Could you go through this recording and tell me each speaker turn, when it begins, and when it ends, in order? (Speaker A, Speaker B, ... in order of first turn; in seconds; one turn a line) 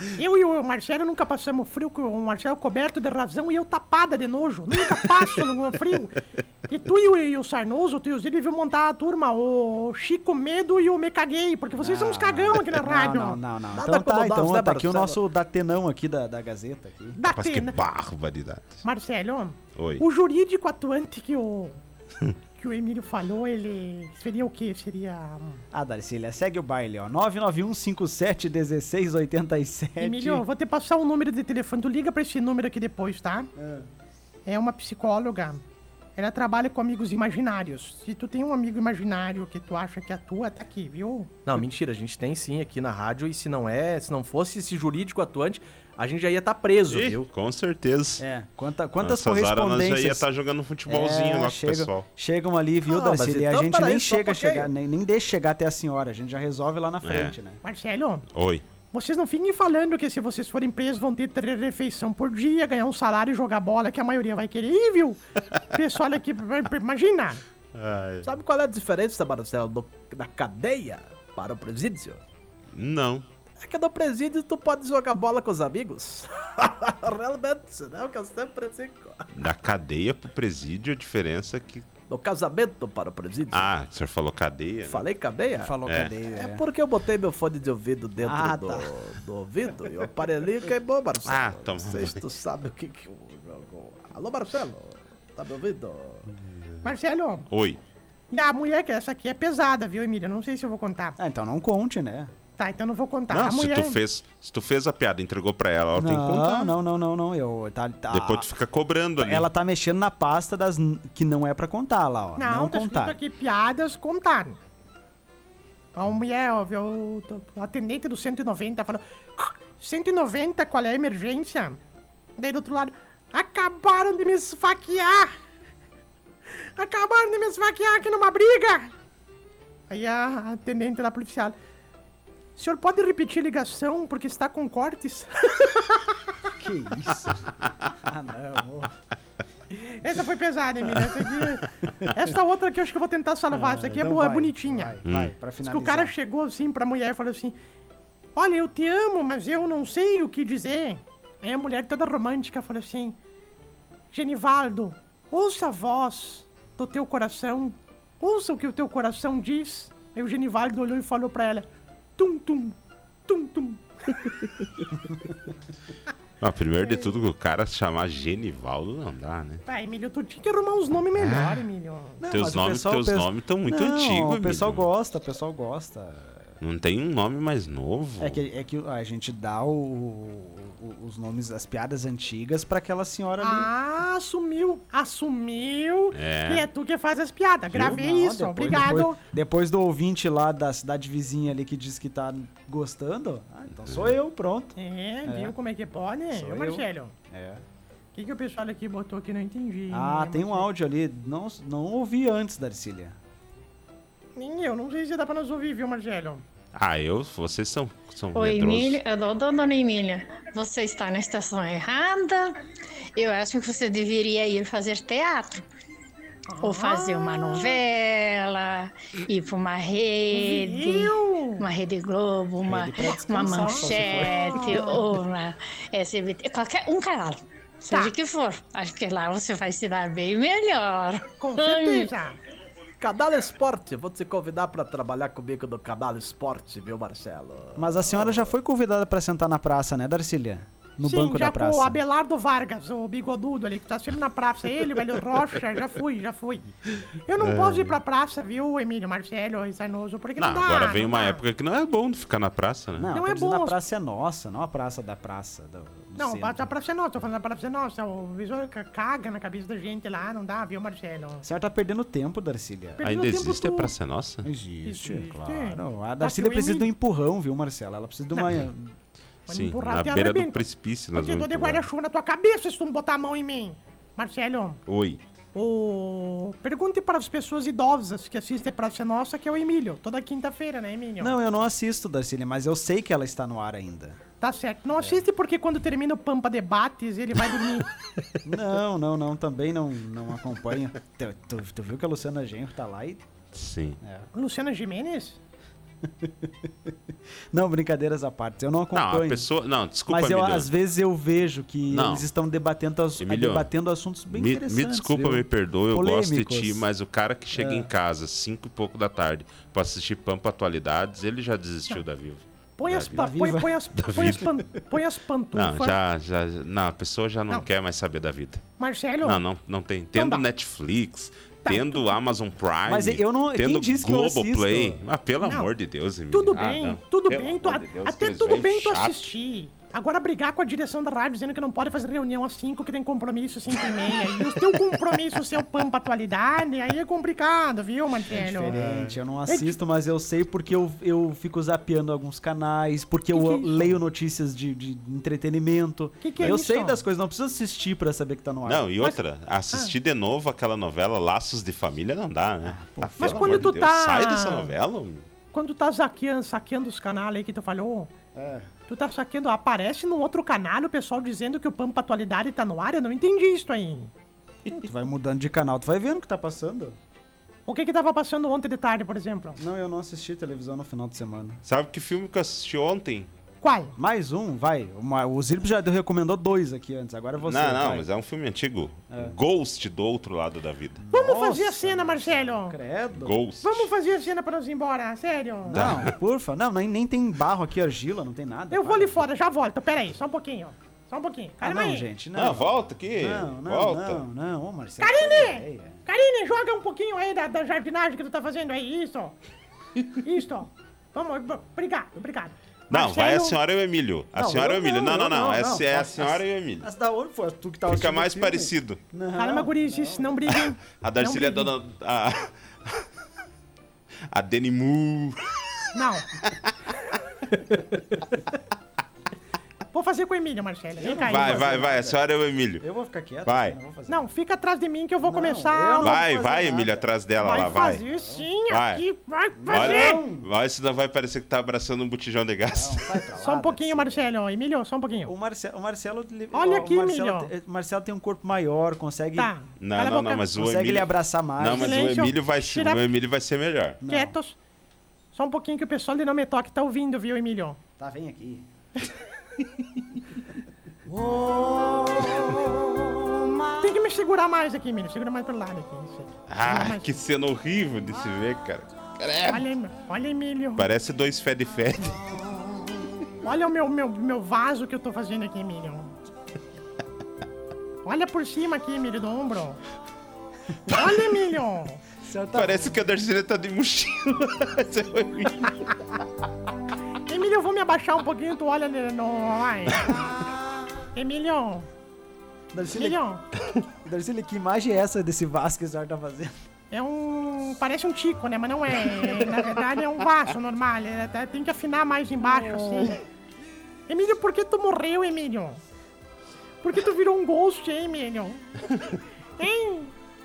Speaker A: 0.1-13.4
Speaker B: 11.7-17.2
Speaker C: 13.7-15.2
Speaker A: 17.2-17.8
Speaker D: 17.2-18.8
Speaker A: 18.8-21.8
Speaker D: 19.8-20.0
Speaker A: 22.6-25.6
Speaker B: 25.7-30.4
Speaker A: 30.0-33.5
Speaker B: 33.5-33.9
Speaker A: 34.5-35.6
Speaker A: 36.2-41.3
Speaker C: 41.5-47.2
Speaker D: 46.9-48.2
Speaker B: 48.2-50.2
Speaker D: 49.0-52.0
Speaker B: 50.9-57.6
Speaker C: 52.9-54.7
Speaker D: 57.0-57.3
Speaker A: 57.6-58.2
Speaker D: 58.3-58.6
Speaker A: 58.9-67.4
Speaker D: 67.7-68.3
Speaker C: 68.2-72.2
Speaker D: 72.7-73.2
Speaker C: 73.6-79.3
Speaker D: 79.3-81.9
Speaker C: 82.1-83.7
Speaker D: 83.5-85.0
Speaker C: 84.9-85.8
Speaker B: 85.6-86.6
Speaker D: 85.8-86.1
Speaker C: 86.3-96.3
Speaker B: 88.2-88.9
Speaker D: 91.2-92.2
Speaker A: 96.8-97.5
Speaker D: 97.5-97.8
Speaker A: 98.3-101.2
Speaker B: 101.2-102.3
Speaker A: 102.6-104.0
Speaker D: 103.3-106.7
Speaker B: 105.9-108.5
Speaker D: 108.1-109.5
Speaker B: 109.2-113.2
Speaker A: 112.4-114.6
Speaker A: 115.9-121.8
Speaker A: 122.4-125.3
Speaker A: 126.6-128.9
Speaker A: 129.9-131.5
Speaker A: 132.6-136.3
Speaker B: 136.5-139.0
Speaker A: 139.8-145.0
Speaker B: 143.5-146.1
Speaker D: 145.1-145.3
Speaker A: 145.6-147.6
Speaker A: 148.3-153.2
Speaker A: 154.1-161.7
Speaker A: 162.2-164.2
Speaker B: 165.1-165.4
Speaker D: 166.4-169.6
Speaker A: 166.8-167.1
Speaker A: 169.7-172.2
Speaker D: 171.2-171.6
Speaker B: 172.2-176.5
Speaker D: 172.3-174.8
Speaker D: 176.6-178.4
Speaker B: 178.2-183.7
Speaker A: 183.4-189.2
Speaker D: 186.1-186.7
Speaker B: 187.7-195.5
Speaker D: 193.8-194.2
Speaker A: 194.8-197.1
Speaker B: 196.3-197.6
Speaker A: 198.1-200.7
Speaker B: 199.9-203.2
Speaker A: 204.3-206.4
Speaker D: 206.7-209.0
Speaker E: 208.3-212.6
Speaker E: 213.2-215.6
Speaker A: 216.5-217.8
Speaker E: 216.6-232.1
Speaker A: 220.3-221.6
Speaker B: 222.6-224.8
Speaker A: 223.4-225.2
Speaker A: 227.9-228.1
Speaker A: 231.4-232.4
Speaker C: 233.0-238.5
Speaker B: 237.8-242.0
Speaker A: 241.0-246.7
Speaker A: 247.2-251.4
Speaker D: 247.4-247.9
Speaker D: 250.4-253.1
Speaker B: 252.9-256.7
Speaker A: 253.1-253.8
Speaker A: 256.1-261.4
Speaker B: 261.4-263.0
Speaker A: 263.0-263.9
Speaker D: 263.0-264.5
Speaker B: 264.4-268.9
Speaker A: 264.8-266.9
Speaker A: 269.5-274.8
Speaker D: 269.5-271.8
Speaker D: 274.9-275.2
Speaker A: 275.5-281.4
Speaker B: 281.2-284.2
Speaker A: 284.4-287.9
Speaker B: 288.4-293.2
Speaker D: 293.5-294.0
Speaker B: 294.0-294.3
Speaker A: 294.3-295.4
Speaker B: 296.0-299.5
Speaker D: 298.9-300.7
Speaker B: 300.1-306.8
Speaker D: 301.9-302.2
Speaker D: 303.2-303.7
Speaker D: 304.3-313.3
Speaker B: 307.5-307.9
Speaker A: 312.8-315.9
Speaker B: 313.1-313.7
Speaker D: 313.9-314.4
Speaker D: 315.5-318.6
Speaker A: 318.8-319.4
Speaker D: 319.2-329.1
Speaker A: 320.1-320.5
Speaker A: 321.6-322.1
Speaker B: 322.9-325.0
Speaker A: 325.4-325.7
Speaker A: 326.3-338.7
Speaker B: 338.3-348.9
Speaker D: 338.6-339.1
Speaker A: 339.4-339.8
Speaker A: 343.3-343.9
Speaker A: 346.2-347.0
Speaker D: 348.6-355.2
Speaker B: 352.6-353.8
Speaker A: 353.2-354.7
Speaker A: 355.5-358.1
Speaker B: 358.3-358.7
Speaker A: 358.9-364.1
Speaker B: 364.7-366.9
Speaker A: 367.7-369.6
Speaker B: 369.6-371.6
Speaker D: 371.6-373.3
Speaker A: 373.6-373.9
Speaker B: 373.9-378.0
Speaker D: 377.4-381.0
Speaker B: 379.1-379.4
Speaker B: 381.0-383.4
Speaker A: 381.1-382.8
Speaker D: 383.1-383.9
Speaker A: 383.6-386.0
Speaker B: 385.6-389.3
Speaker D: 385.7-386.1
Speaker A: 388.7-392.1
Speaker B: 391.6-396.0
Speaker D: 392.3-394.2
Speaker A: 395.0-399.4
Speaker A: 400.2-403.6
Speaker D: 402.9-406.9
Speaker B: 404.3-410.5
Speaker D: 407.9-409.0
Speaker A: 409.4-411.7
Speaker D: 410.9-413.0
Speaker D: 414.3-415.6
Speaker A: 415.9-416.3
Speaker D: 416.4-417.1
Speaker A: 419.9-421.8
Speaker B: 421.0-422.2
Speaker D: 421.1-422.8
Speaker B: 422.8-424.3
Speaker D: 423.4-423.8
Speaker A: 424.1-426.2
Speaker B: 425.2-427.1
Speaker D: 426.0-428.0
Speaker A: 427.4-430.2
Speaker B: 428.0-428.4
Speaker D: 428.7-429.0
Speaker B: 429.6-430.5
Speaker D: 429.7-433.1
Speaker B: 432.7-434.3
Speaker A: 433.4-435.3
Speaker B: 435.2-439.5
Speaker A: 436.5-437.5
Speaker A: 439.4-440.6
Speaker D: 439.8-444.0
Speaker B: 440.6-442.3
Speaker A: 441.8-443.0
Speaker B: 444.0-444.3
Speaker A: 444.1-444.6
Speaker A: 445.3-447.8
Speaker B: 448.0-448.7
Speaker B: 451.1-453.6
Speaker A: 453.8-457.1
Speaker D: 456.5-459.6
Speaker A: 459.4-460.9
Speaker D: 460.8-462.2
Speaker A: 463.4-466.1
Speaker A: 468.0-469.8
Speaker A: 470.9-472.0
Speaker B: 472.2-473.0
Speaker D: 472.5-476.2
Speaker A: 477.3-480.2
Speaker A: 481.1-481.9
Speaker B: 482.7-483.2
Speaker A: 482.9-483.4
Speaker B: 484.0-486.5
Speaker A: 486.9-493.2
Speaker A: 494.1-495.8
Speaker A: 496.8-498.6
Speaker A: 499.6-500.1